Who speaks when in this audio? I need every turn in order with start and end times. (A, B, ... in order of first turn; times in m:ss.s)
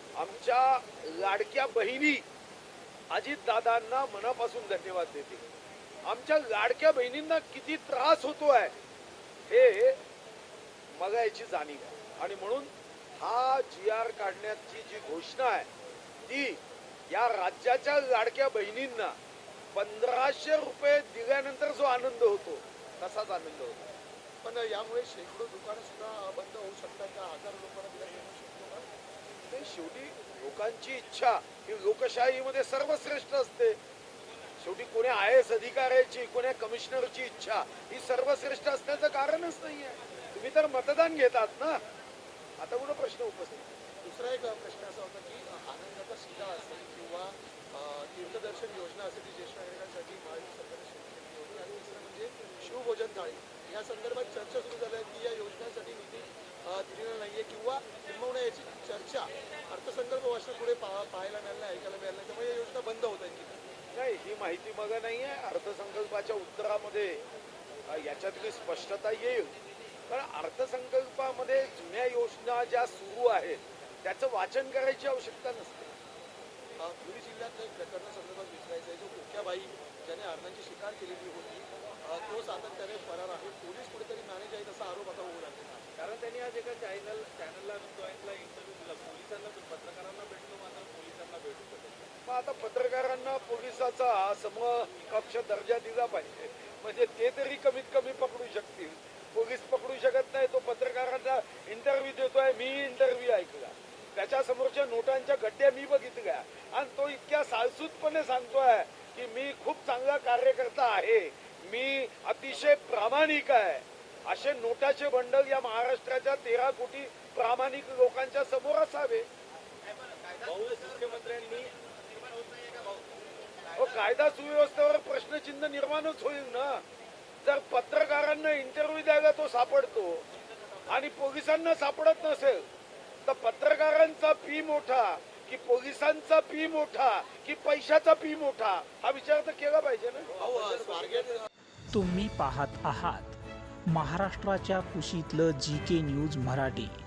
0:00.2-0:02.2 A
0:03.1-0:05.4 A
0:06.0-0:08.7 A
0:09.5-0:10.0 A
0:11.0-0:15.7 A
0:16.3-0:19.2 A
0:19.7-0:23.9 A
0:24.4-0:28.9 B
0:29.5-0:33.8 A
0:34.6-0:41.8 A
0:42.6-0:43.7 A
0:44.0-1:03.6 B
1:03.9-1:07.2 A
1:07.9-1:09.6 A
1:10.1-1:15.9 A
1:16.8-1:25.8 B
1:26.0-1:32.0 C
1:32.3-1:59.3 A
2:00.3-2:01.7 C
2:03.8-2:06.8 A
2:07.4-2:10.2 A
2:10.9-2:12.6 A
2:13.2-2:20.4 A
2:20.4-2:21.3 C
2:20.4-2:21.4 B
2:21.9-2:23.3 D
2:23.9-2:26.9 D